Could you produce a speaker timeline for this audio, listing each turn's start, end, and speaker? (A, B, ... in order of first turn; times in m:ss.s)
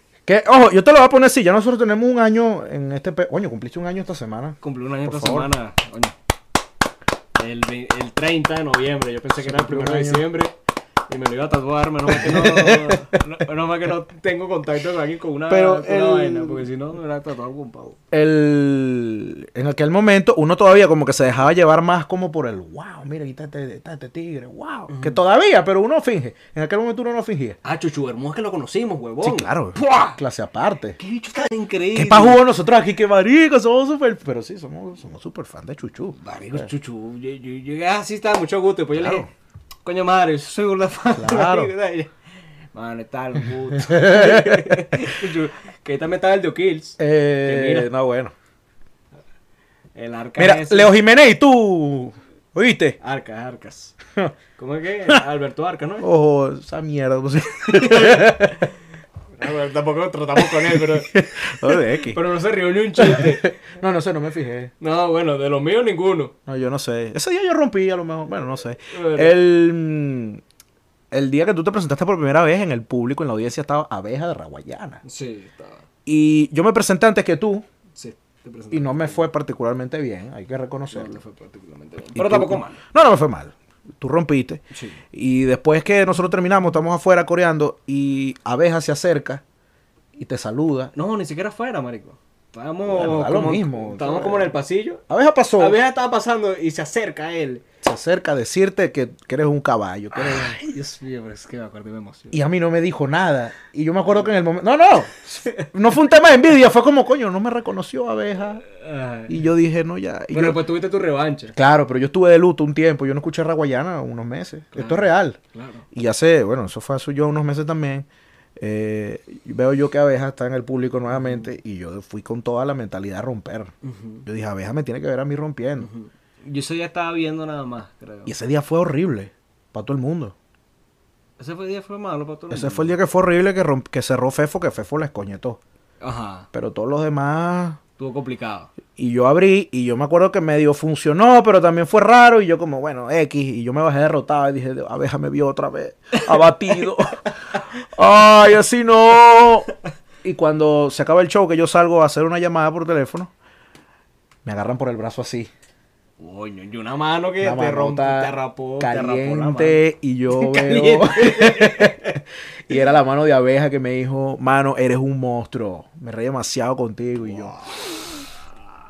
0:00.3-0:05.5 A
0:04.6-0:06.2 B
0:07.4-0:10.6 B
0:09.4-0:10.2 A
0:11.1-0:18.0 B
0:12.1-0:13.2 A
0:15.5-0:16.7 A
0:18.1-0:27.6 A
0:24.9-0:25.2 B
0:27.6-0:30.2 B
0:29.2-0:31.0 A
0:31.0-0:32.4 B
0:32.0-0:36.7 A
0:36.2-0:39.3 B
0:39.0-0:39.3 A
0:39.8-0:42.1 B
0:41.2-0:41.7 A
0:42.7-0:47.9 B
0:43.7-0:45.1 A
0:47.0-0:48.3 A
0:50.0-0:50.9 B
0:50.4-0:53.0 A
0:53.0-0:54.0 B
0:54.6-0:56.1 B
0:56.0-0:58.7 A
0:57.7-0:58.5 B
0:59.4-1:03.5 B
1:00.5-1:02.2 A
1:03.0-1:04.7 A
1:04.8-1:06.3 B
1:06.5-1:10.4 A
1:08.9-1:09.4 B
1:11.1-1:15.0 A
1:15.0-1:15.8 B
1:16.1-1:17.6 A
1:18.0-1:19.3 B
1:18.7-1:21.2 A
1:20.9-1:22.8 B
1:22.2-1:24.6 A
1:24.7-1:25.0 B
1:25.1-1:29.4 A
1:30.2-1:30.9 A
1:30.9-1:35.0 B
1:32.9-1:34.5 A
1:35.1-1:35.8 A
1:35.6-1:37.6 B
1:37.8-1:40.6 A
1:40.1-1:42.4 B
1:42.3-1:48.6 A
1:45.4-1:45.7 B
1:48.7-1:49.4 B
1:49.3-1:50.6 A
1:50.3-1:51.6 B
1:51.6-1:55.4 A
1:54.7-1:55.8 B
1:55.9-1:58.1 A
1:58.6-2:03.7 A
2:01.1-2:01.5 B
2:03.8-2:04.2 B
2:04.2-2:05.9 A
2:05.8-2:08.3 B
2:08.3-2:10.4 A
2:11.4-2:13.0 B
2:12.5-2:15.6 A
2:16.0-2:16.5 B
2:16.5-2:17.8 A
2:18.0-2:18.7 B
2:19.0-2:29.7 A
2:30.2-2:33.3 A
2:34.4-2:35.5 A
2:36.2-2:42.2 B
2:37.4-2:47.6 A
2:47.3-2:47.9 B